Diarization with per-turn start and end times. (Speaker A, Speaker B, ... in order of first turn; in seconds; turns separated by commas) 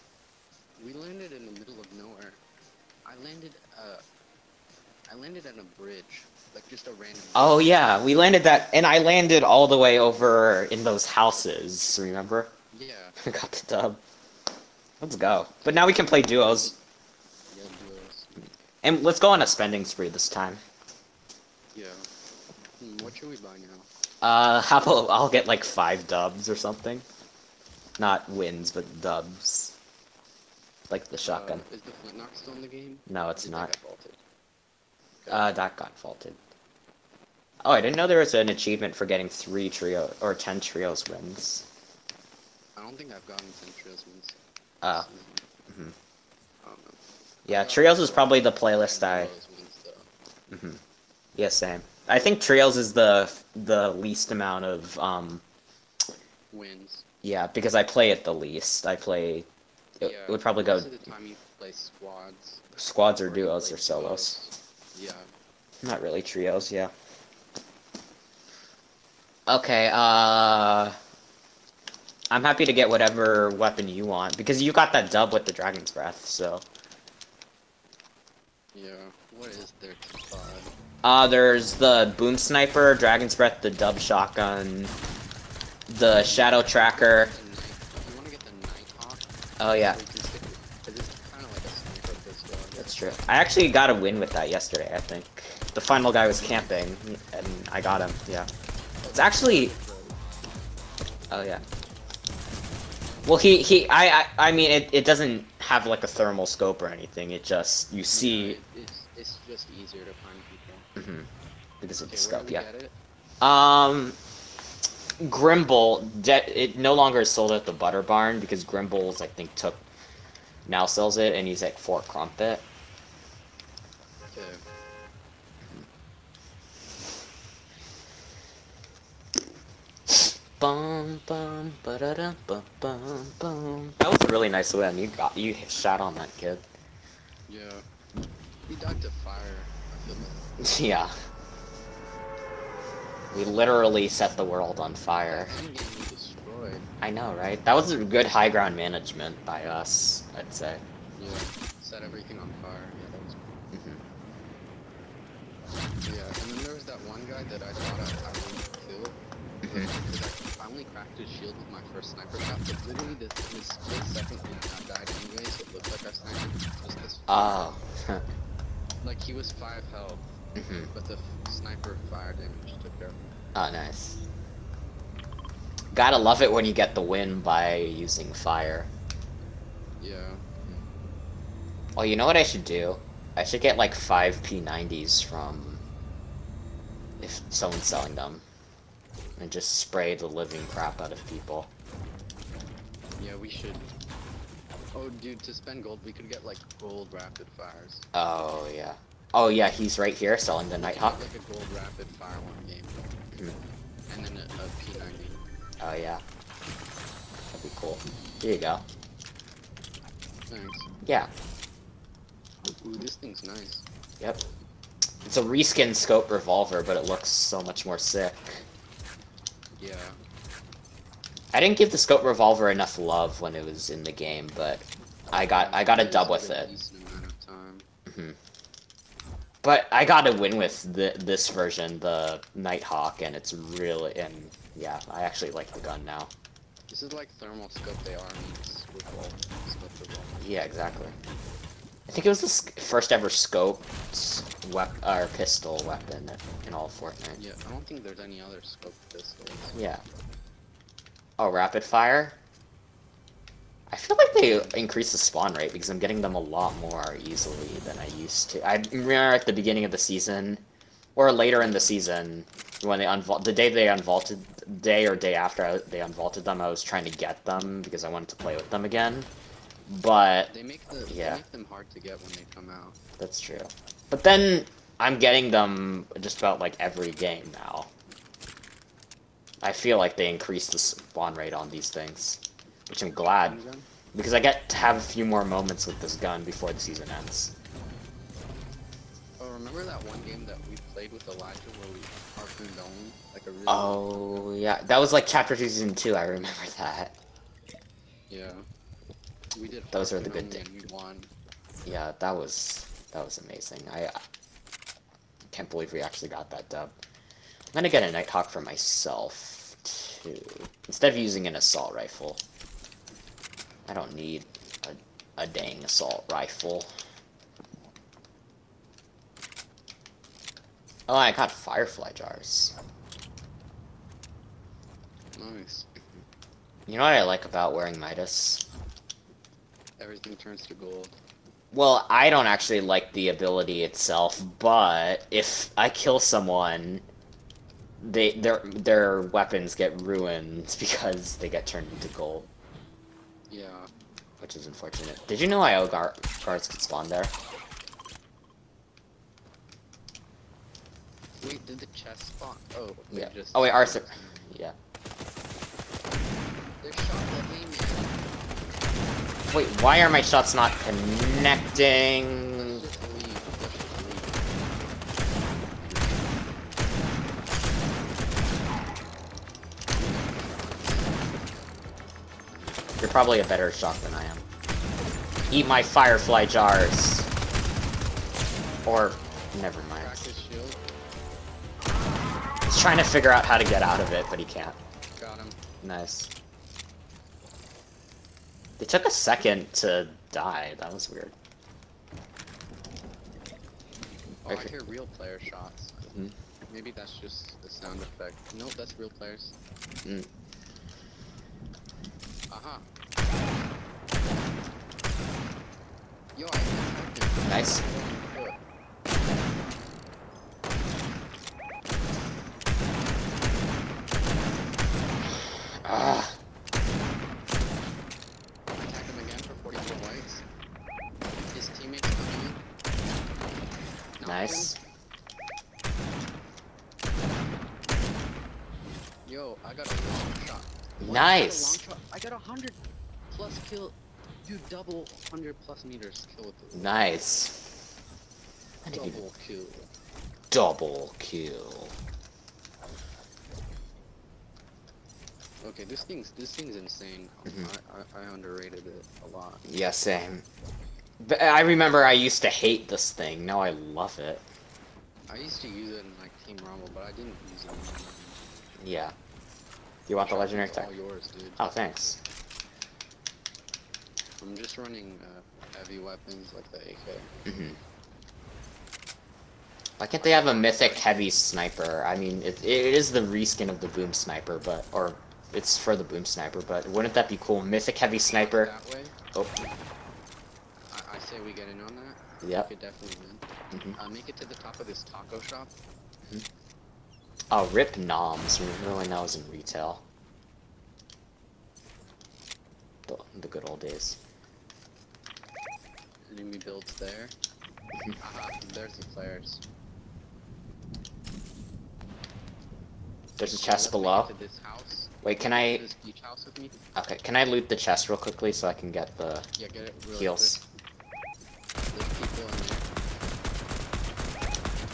Speaker A: 0.8-2.4, Speaker A: 3.0-4.0, Speaker A: 5.1-7.7, Speaker B: 7.3-12.5, Speaker A: 12.7-13.2, Speaker B: 13.2-14.0, Speaker B: 15.0-16.7, Speaker A: 15.6-16.8, Speaker A: 17.5-18.4, Speaker B: 18.8-20.6, Speaker A: 21.7-22.1, Speaker A: 22.8-23.9, Speaker B: 24.2-27.1, Speaker B: 28.0-29.8, Speaker B: 30.9-31.6, Speaker A: 31.2-34.2, Speaker B: 33.1-33.8, Speaker B: 35.3-36.4, Speaker B: 37.6-41.6, Speaker A: 42.8-45.5, Speaker B: 45.7-45.9, Speaker A: 46.6-50.1, Speaker B: 47.5-49.3, Speaker B: 50.5-50.8, Speaker B: 51.4-55.4, Speaker A: 56.5-57.0, Speaker B: 57.2-59.5, Speaker A: 60.0-62.6, Speaker B: 60.0-60.9, Speaker B: 62.7-64.3, Speaker A: 63.2-65.3, Speaker B: 65.8-66.9, Speaker B: 69.5-71.0, Speaker B: 72.3-76.6, Speaker A: 78.7-80.7, Speaker B: 81.0-84.9, Speaker B: 85.9-87.3, Speaker A: 86.1-93.1, Speaker B: 89.6-90.0, Speaker B: 92.8-98.5, Speaker A: 96.3-96.7, Speaker A: 99.0-100.2, Speaker B: 99.1-99.7, Speaker B: 101.3-101.6, Speaker B: 103.2-108.6, Speaker A: 108.1-110.9, Speaker B: 111.0-111.3, Speaker B: 111.8-112.7, Speaker A: 112.1-112.9, Speaker B: 113.4-114.2, Speaker B: 115.2-119.8, Speaker B: 120.7-122.6, Speaker A: 124.3-124.6, Speaker B: 130.1-136.7, Speaker A: 137.5-137.9, Speaker A: 138.7-140.5, Speaker B: 140.6-141.1, Speaker B: 143.3-145.6, Speaker A: 145.3-146.8, Speaker B: 147.0-150.8, Speaker A: 151.2-153.5, Speaker B: 153.7-154.0, Speaker A: 156.1-167.7, Speaker B: 159.6-159.9, Speaker B: 167.3-168.2, Speaker A: 169.0-170.2, Speaker B: 170.6-170.9, Speaker A: 170.9-173.2, Speaker B: 173.6-174.2, Speaker B: 175.9-178.9, Speaker A: 180.0-180.4, Speaker B: 182.0-185.8, Speaker B: 187.2-188.4, Speaker B: 189.4-191.7, Speaker A: 193.2-193.9, Speaker A: 194.9-198.1, Speaker B: 198.1-201.2, Speaker A: 200.8-203.0, Speaker A: 204.1-205.4, Speaker B: 205.8-206.2, Speaker B: 207.5-208.8, Speaker A: 210.5-210.9, Speaker A: 212.7-213.8, Speaker B: 215.2-218.7, Speaker A: 219.8-220.2, Speaker B: 221.5-226.7, Speaker A: 225.4-227.9, Speaker B: 228.1-228.4, Speaker B: 229.6-236.3, Speaker A: 236.9-240.6, Speaker B: 240.4-241.2, Speaker B: 242.1-247.4, Speaker A: 247.4-249.8, Speaker B: 249.8-250.0, Speaker B: 251.4-252.4, Speaker B: 253.9-260.6, Speaker A: 254.4-254.8, Speaker B: 261.2-269.3, Speaker A: 261.6-261.9, Speaker B: 269.9-270.5, Speaker A: 270.5-273.0, Speaker B: 271.1-271.4, Speaker B: 273.2-277.9, Speaker B: 279.6-283.6, Speaker A: 283.4-283.9, Speaker B: 284.1-287.5, Speaker A: 289.4-294.5, Speaker B: 293.7-297.1, Speaker A: 298.3-298.6, Speaker A: 299.5-301.3, Speaker B: 299.9-300.6, Speaker B: 301.9-304.2, Speaker B: 305.5-306.9, Speaker B: 307.7-312.4, Speaker B: 313.9-316.9, Speaker B: 321.1-322.8, Speaker A: 325.4-325.9, Speaker B: 326.9-328.6, Speaker A: 330.0-331.2, Speaker B: 331.7-337.1, Speaker B: 338.0-342.5, Speaker A: 343.5-343.9, Speaker B: 344.4-347.3, Speaker A: 351.4-354.5, Speaker B: 353.1-354.8, Speaker A: 356.8-358.2, Speaker B: 359.5-362.8, Speaker A: 362.6-364.7, Speaker A: 365.8-366.3, Speaker A: 369.9-371.8, Speaker B: 373.0-374.4, Speaker B: 375.5-377.3, Speaker B: 378.9-380.2, Speaker A: 379.8-380.9, Speaker B: 382.7-384.8, Speaker A: 385.2-385.6, Speaker B: 385.8-386.3, Speaker B: 388.8-391.3, Speaker A: 394.4-396.1, Speaker A: 396.7-399.6, Speaker A: 402.5-402.9, Speaker A: 406.4-408.6, Speaker B: 407.4-407.8, Speaker B: 415.8-416.4, Speaker A: 418.8-420.4, Speaker A: 421.5-422.6, Speaker A: 424.2-424.8, Speaker B: 424.2-424.8, Speaker A: 429.2-432.8, Speaker B: 431.0-431.8, Speaker A: 433.3-437.0, Speaker B: 436.7-437.6, Speaker B: 438.8-439.2, Speaker A: 438.9-439.9, Speaker B: 440.5-441.9, Speaker A: 445.6-449.6, Speaker B: 449.6-450.4, Speaker B: 451.2-454.4, Speaker A: 455.3-458.4, Speaker B: 458.8-459.1, Speaker B: 460.1-460.9, Speaker A: 460.2-461.6, Speaker B: 461.6-462.2, Speaker A: 464.4-467.3, Speaker B: 467.4-467.8, Speaker B: 470.0-478.7, Speaker A: 470.2-471.1, Speaker A: 478.2-479.2, Speaker B: 479.3-479.6, Speaker A: 480.9-485.7, Speaker B: 482.4-482.7, Speaker B: 483.7-484.0, Speaker B: 487.5-490.0, Speaker B: 493.1-494.2, Speaker A: 496.2-497.4, Speaker A: 498.2-499.6, Speaker B: 503.4-504.3, Speaker A: 503.6-506.8, Speaker B: 505.2-505.9, Speaker B: 506.9-509.5, Speaker A: 509.6-510.6, Speaker B: 510.1-510.6, Speaker A: 511.9-512.9